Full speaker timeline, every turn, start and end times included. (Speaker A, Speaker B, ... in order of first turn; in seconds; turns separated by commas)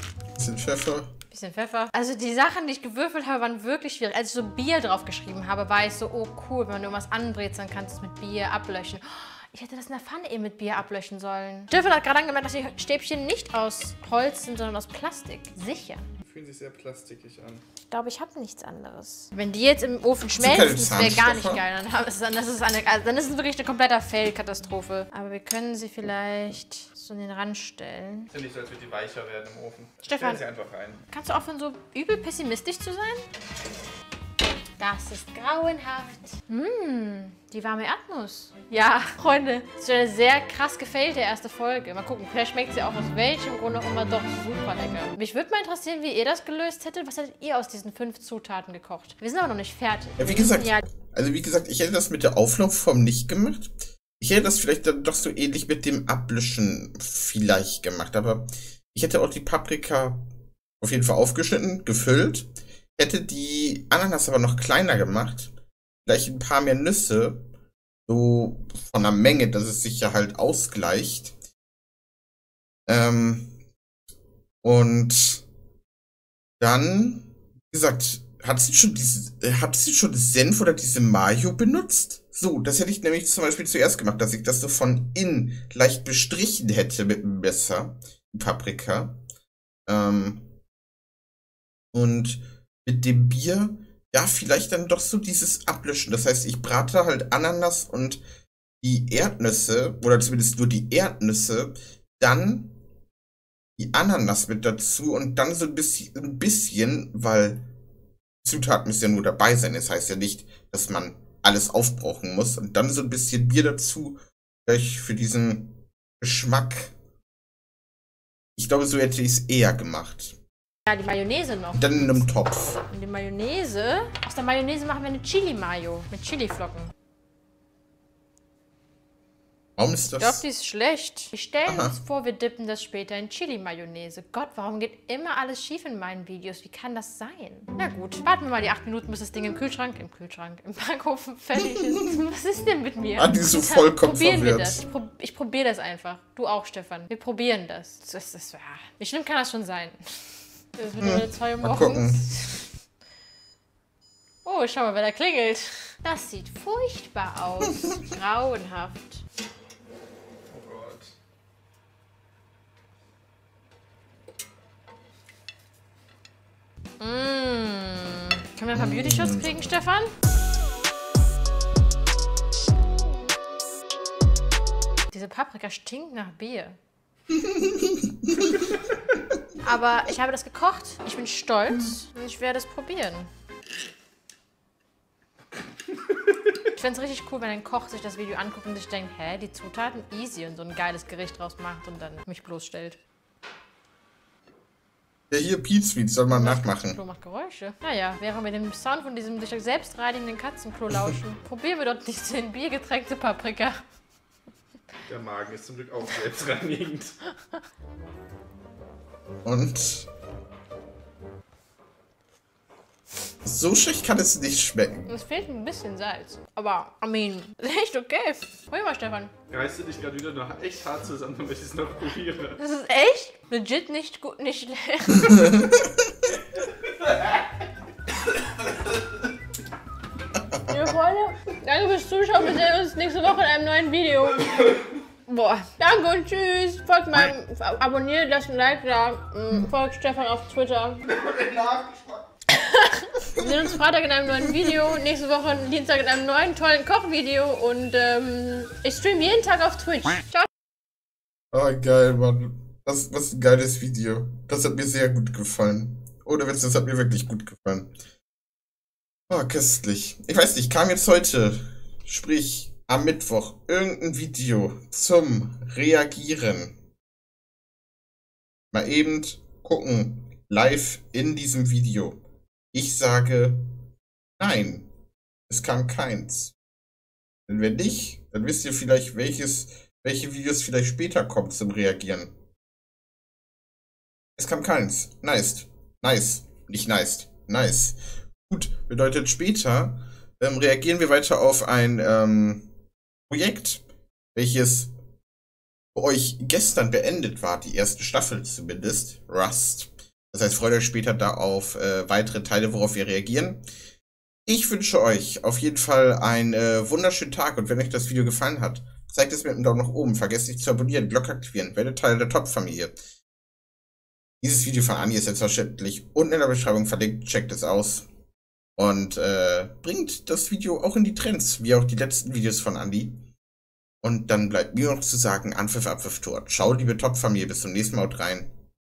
Speaker A: 0.3-1.1, Speaker B: 1.3-16.1, Speaker C: 16.2-17.6, Speaker B: 17.9-28.3, Speaker A: 20.4-21.6, Speaker C: 28.3-31.0, Speaker B: 30.0-30.4, Speaker B: 31.1-33.2, Speaker B: 34.8-50.8, Speaker A: 50.2-60.2, Speaker A: 60.8-65.5, Speaker A: 66.0-67.4, Speaker A: 68.1-71.3, Speaker A: 72.9-73.5, Speaker A: 74.6-75.4, Speaker A: 76.6-89.1, Speaker A: 89.9-90.4, Speaker A: 91.9-98.2, Speaker A: 98.8-102.7, Speaker A: 103.8-107.6, Speaker A: 108.4-116.9, Speaker A: 118.5-120.4, Speaker B: 120.8-126.9, Speaker A: 121.7-122.8, Speaker A: 129.8-130.4, Speaker B: 130.1-152.7, Speaker A: 131.7-131.9, Speaker A: 143.1-144.8, Speaker A: 151.0-152.2, Speaker B: 154.4-159.2, Speaker C: 160.5-161.1, Speaker B: 167.0-170.1, Speaker A: 168.7-169.8, Speaker B: 175.1-176.8, Speaker A: 177.3-178.6, Speaker B: 179.6-183.3, Speaker B: 186.7-193.0, Speaker A: 195.3-197.0, Speaker B: 196.3-203.8, Speaker C: 205.1-207.1, Speaker A: 209.4-210.1, Speaker A: 213.4-215.1, Speaker B: 215.1-219.3, Speaker C: 219.5-222.6, Speaker B: 222.6-225.8, Speaker B: 230.7-241.1, Speaker C: 241.2-242.2, Speaker B: 242.5-250.5, Speaker A: 251.5-257.9, Speaker A: 259.3-266.7, Speaker A: 268.7-272.2, Speaker A: 272.7-273.6, Speaker A: 274.4-274.9, Speaker A: 275.5-276.5, Speaker A: 277.5-282.3, Speaker A: 284.4-292.6, Speaker A: 293.3-293.8, Speaker A: 294.3-294.9, Speaker A: 295.9-303.6, Speaker A: 304.4-312.9, Speaker A: 314.4-318.1, Speaker A: 318.8-323.1, Speaker A: 324.0-328.5